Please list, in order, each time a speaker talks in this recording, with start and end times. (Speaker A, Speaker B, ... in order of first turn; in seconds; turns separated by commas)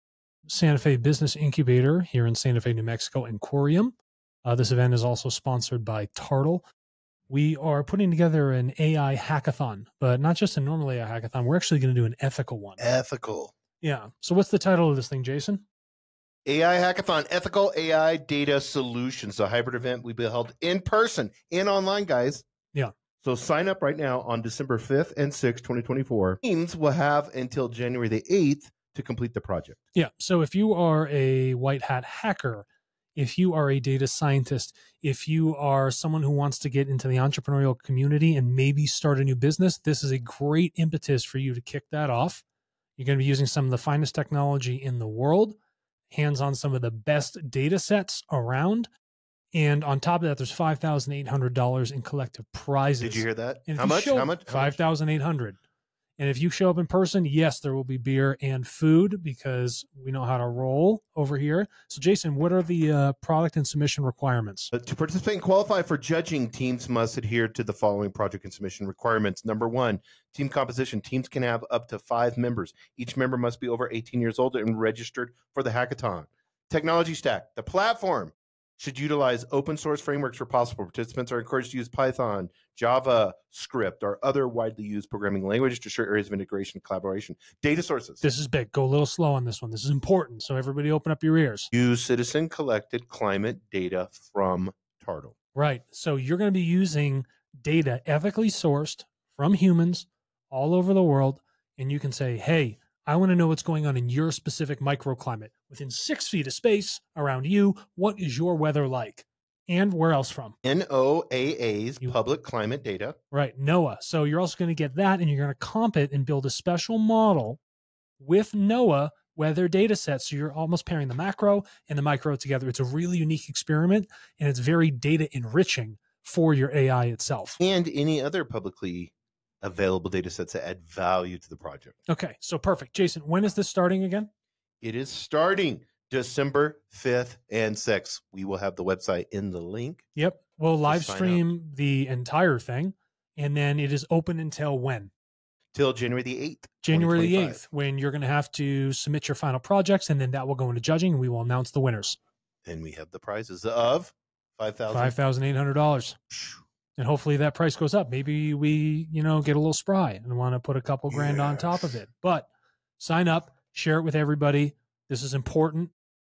Speaker A: 0.5-6.7, Speaker A: 7.3-12.8, Speaker B: 12.8-13.5, Speaker A: 13.8-15.6, Speaker B: 16.4-22.4, Speaker B: 23.2-29.8, Speaker A: 29.9-42.4, Speaker A: 43.0-45.5, Speaker A: 46.1-48.9, Speaker A: 49.5-55.6, Speaker B: 53.0-54.8, Speaker A: 56.2-64.7, Speaker B: 64.7-88.2, Speaker A: 88.2-91.7, Speaker B: 91.7-95.3, Speaker A: 95.5-110.5, Speaker B: 110.6-113.2, Speaker A: 113.3-117.6, Speaker A: 118.2-127.6, Speaker B: 127.6-131.9, Speaker A: 132.1-134.3, Speaker B: 134.8-140.0, Speaker A: 140.2-145.1, Speaker B: 140.8-141.4, Speaker B: 145.7-147.6, Speaker A: 146.8-152.2, Speaker B: 152.6-155.2, Speaker A: 154.9-156.2, Speaker B: 156.3-156.6, Speaker A: 157.0-165.9, Speaker B: 161.1-162.0